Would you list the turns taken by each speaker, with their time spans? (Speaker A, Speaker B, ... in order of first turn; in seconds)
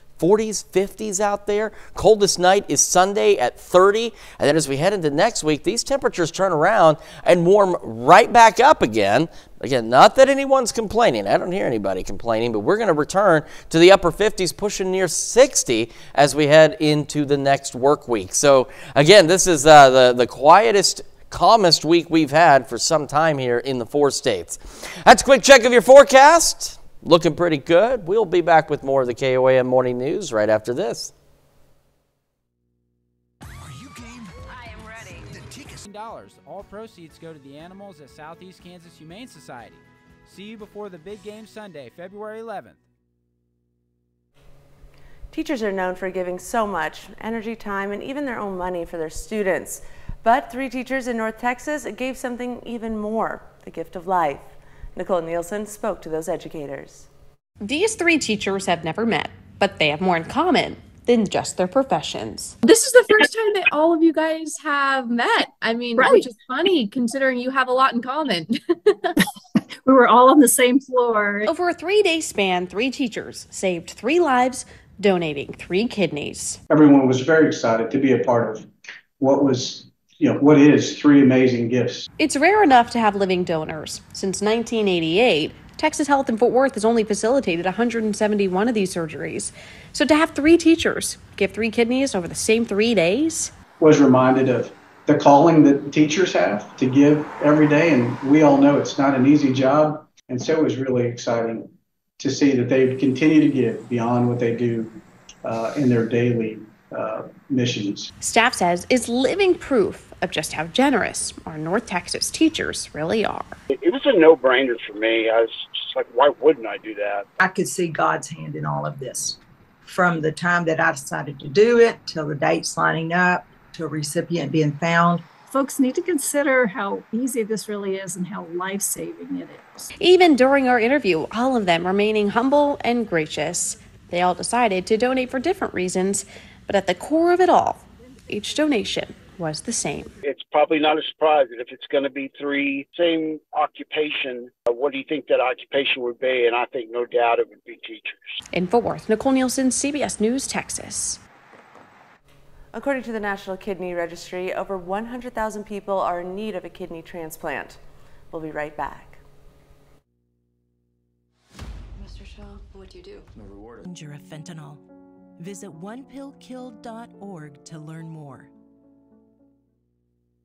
Speaker A: 0.2-31.1
Speaker B: 36.2-39.8, 40.3-42.2
Speaker C: 45.3-57.1, 152.7-157.8, 158.3-159.2
Speaker D: 57.6-62.6, 71.5-76.6, 82.2-93.5, 108.2-113.6, 130.0-140.1, 148.5-151.2
Speaker E: 62.6-69.1
Speaker F: 66.0-66.2, 69.8-71.5, 125.5-129.9
Speaker G: 76.7-78.7, 79.2-82.1, 93.8-101.7, 102.2-108.1
Speaker H: 113.7-117.3, 140.2-148.2
Speaker I: 117.4-125.2
Speaker J: 163.9-164.8, 165.4-168.5